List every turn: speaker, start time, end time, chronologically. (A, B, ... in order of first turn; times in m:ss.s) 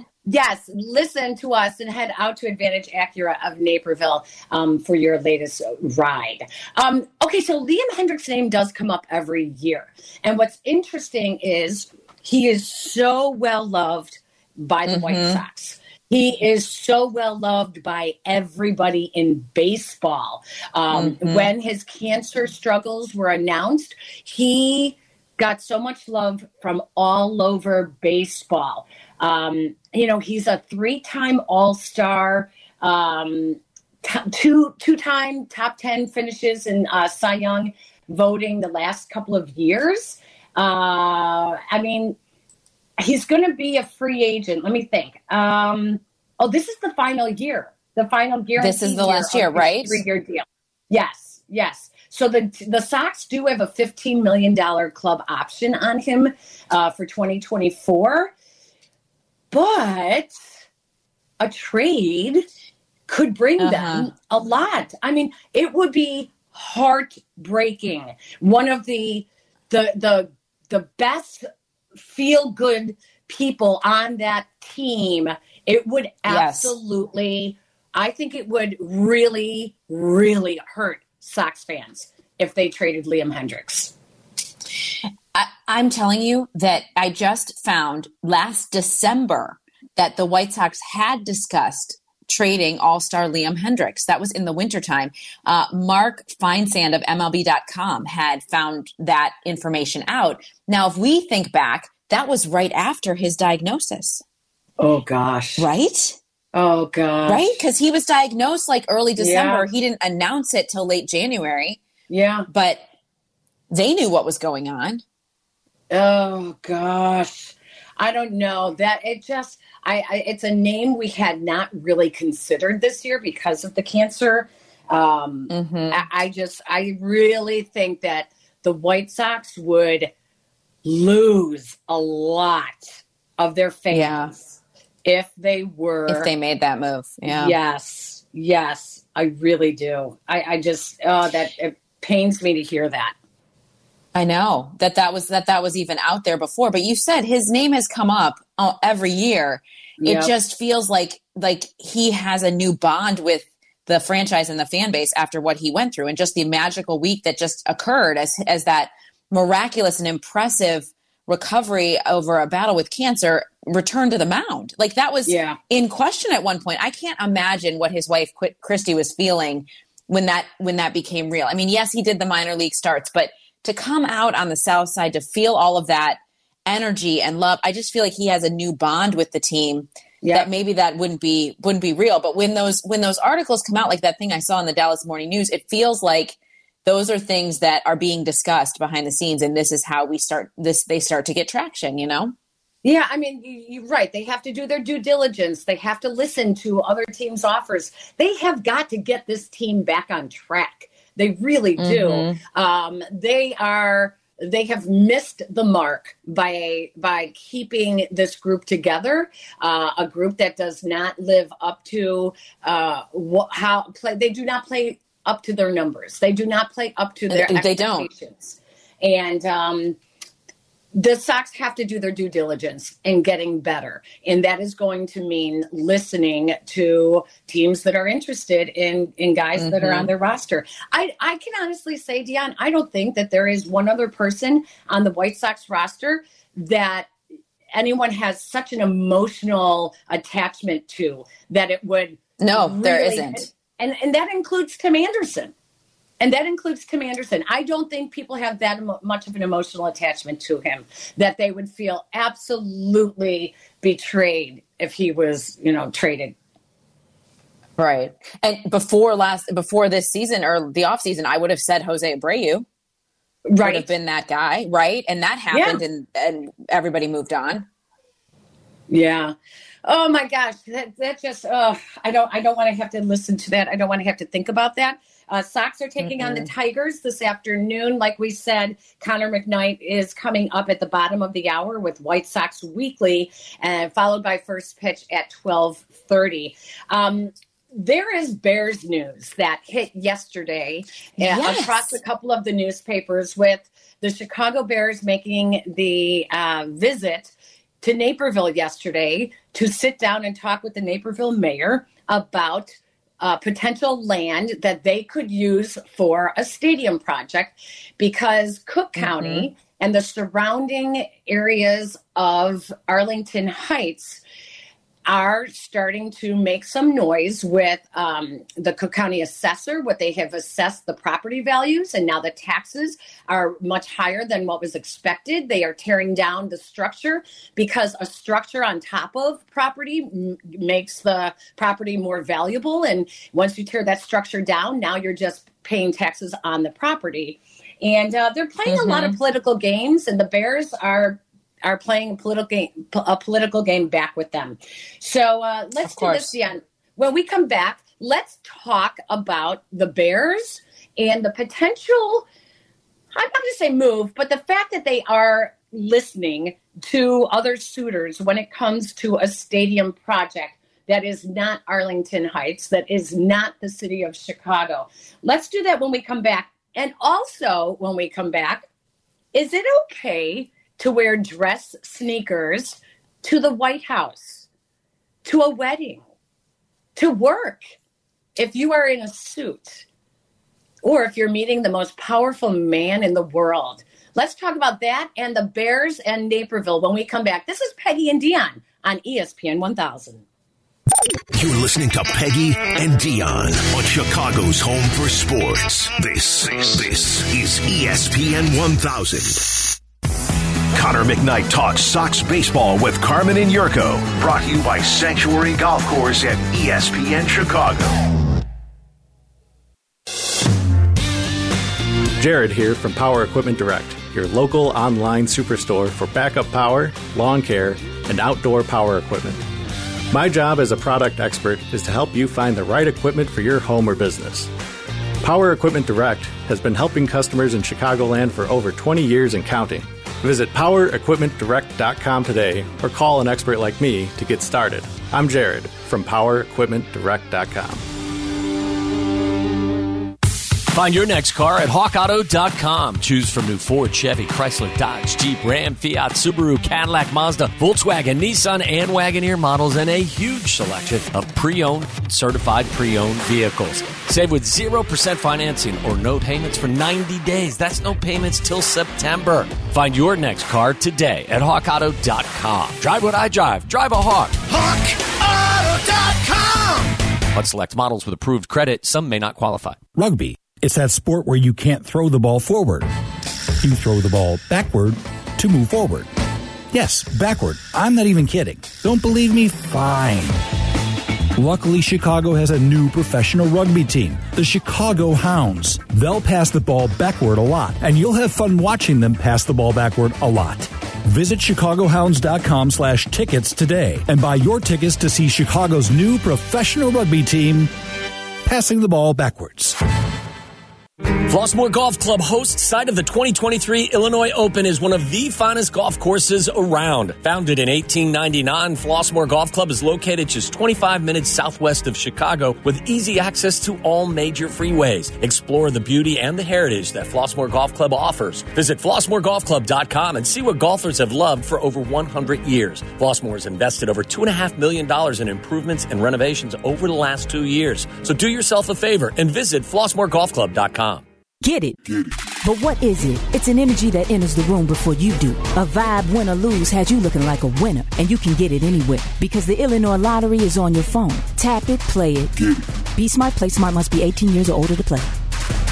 0:00.3-0:42.2 A
0:14.9-0:15.4 B
0:20.9-0:21.5 B
0:43.0-0:58.3 A
0:48.6-0:50.0 B
0:59.5-1:00.4 A
1:01.4-1:02.5 A
1:03.1-1:11.5 A
1:03.6-1:04.1 B
1:12.0-1:23.9 A
1:16.3-1:16.7 B
1:25.3-1:44.2 B
1:44.8-1:45.7 A
1:45.6-1:46.2 B
1:46.5-1:47.5 A
1:47.3-1:51.8 B
1:49.2-1:49.7 A
1:52.1-1:52.5 A
1:52.5-1:52.9 B
1:53.7-1:55.0 B
1:55.9-2:10.1 A
2:05.5-2:06.0 B
2:10.8-2:14.4 A
2:13.9-2:14.4 B
2:15.0-2:16.3 A
2:16.1-2:17.6 B
2:17.3-2:23.2 A
2:24.1-3:12.4 B
2:30.0-2:30.3 A
2:45.3-2:45.6 A
3:00.2-3:00.5 A
3:12.8-3:40.0 A
3:21.8-3:22.4 B
3:37.3-3:38.1 B
3:40.9-3:57.1 A
3:49.6-3:50.1 B
3:57.7-4:05.5 A
4:02.4-4:03.5 B
4:06.2-4:16.4 A
4:17.8-4:22.7 B
4:23.5-4:23.9 A
4:23.6-4:27.7 B
4:25.5-4:25.8 A
4:28.9-5:14.2 A
4:36.0-4:36.5 B
4:51.2-4:52.0 B
5:09.0-5:09.5 B
5:15.1-5:52.3 A
5:38.6-5:39.2 B
5:45.8-5:46.3 B
5:53.1-6:08.7 A
6:09.3-6:14.5 A
6:15.2-6:16.0 A
6:17.0-6:17.8 A
6:18.4-6:19.8 A
6:20.8-6:30.2 A
6:31.3-6:39.5 C
6:40.7-6:48.0 C
6:52.2-6:59.4 D
7:00.1-7:04.5 D
7:05.2-7:17.8 D
7:20.7-7:44.4 E
7:44.5-7:46.8 C
7:47.3-7:49.8 E
7:50.0-7:52.9 F
7:53.6-7:56.1 F
7:56.7-8:00.4 F
8:01.4-8:17.7 F
8:18.5-8:19.8 F
8:21.3-8:51.0 E
8:51.4-8:51.8 G
8:52.4-9:05.1 G